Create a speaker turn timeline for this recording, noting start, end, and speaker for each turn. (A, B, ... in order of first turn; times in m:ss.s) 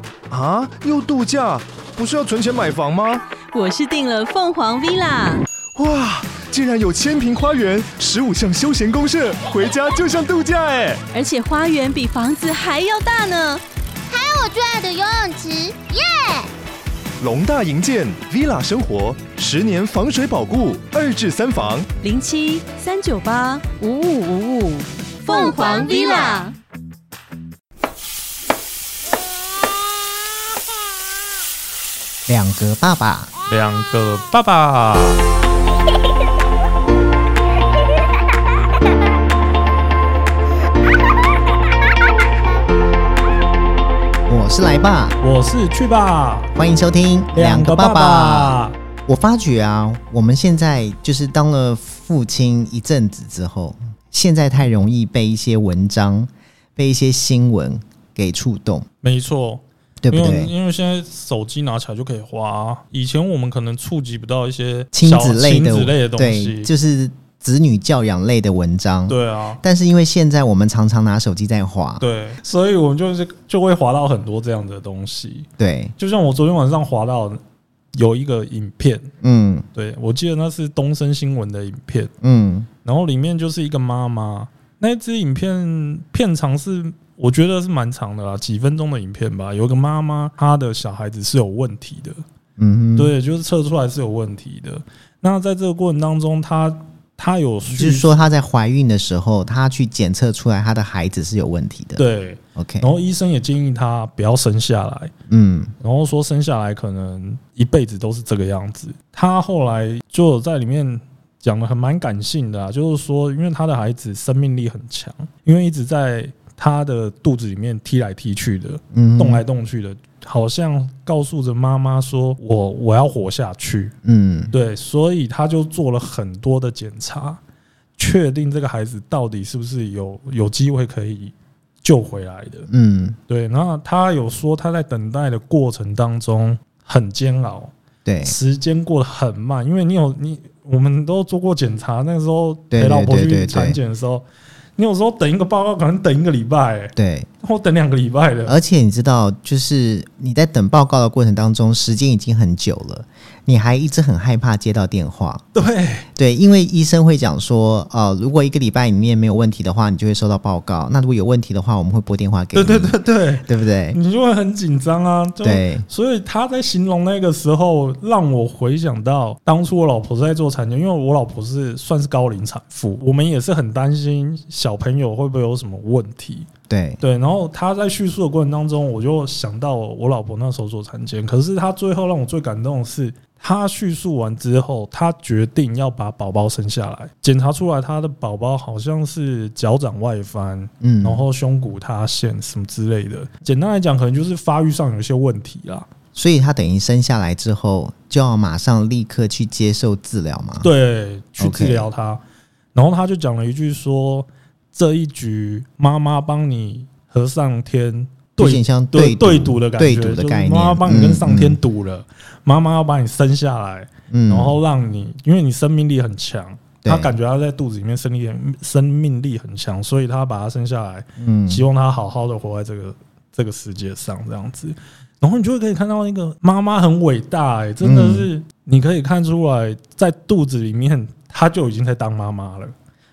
0:00.3-0:03.2 A
0:03.5-0:05.4 B
0:05.7-0:11.0 A
0:11.1-0:13.6 B
0:14.1-0:16.5 C
0:17.2-0:21.9 A
0:22.0-0:26.5 B
0:25.3-0:26.5 C
0:32.3-0:33.3 D
0:33.5-0:35.2 E
0:44.3-0:45.2 D
0:45.2-0:46.5 E
0:46.5-0:58.9 D
0:47.3-0:48.7 E
0:59.0-1:06.7 E
1:00.0-1:00.5 D
1:04.9-1:12.0 D
1:09.1-1:09.6 E
1:12.0-1:15.5 E
1:15.6-1:15.9 D
1:16.0-1:17.4 E
1:17.9-1:19.1 E
1:19.2-1:19.6 D
1:19.7-1:22.1 E
1:22.2-1:22.7 D
1:22.8-1:32.2 E
1:32.6-1:33.1 D
1:33.0-1:38.2 E
1:37.7-1:42.0 D
1:42.0-1:45.1 E
1:42.6-1:42.9 D
1:45.3-1:45.7 D
1:45.8-2:03.9 E
1:58.9-1:59.4 D
2:04.0-2:04.5 D
2:04.5-2:07.4 E
2:08.0-2:12.7 E
2:12.7-2:13.2 D
2:13.3-2:17.7 E
2:18.0-2:18.3 D
2:18.2-2:24.2 E
2:22.7-2:23.8 D
2:24.8-2:28.6 E
2:27.0-2:27.3 D
2:28.5-2:35.5 D
2:35.5-2:36.1 E
2:36.1-2:44.0 D
2:42.5-2:56.5 E
2:45.4-2:45.8 D
2:56.7-2:57.0 D
2:57.0-3:15.9 E
3:10.8-3:11.2 D
3:16.1-3:20.7 D
3:20.6-3:22.2 E
3:21.4-3:21.9 D
3:22.7-3:52.7 E
3:28.4-3:31.6 D
3:34.1-3:34.6 D
3:36.8-3:37.1 D
3:41.2-3:41.6 D
3:47.8-3:48.3 D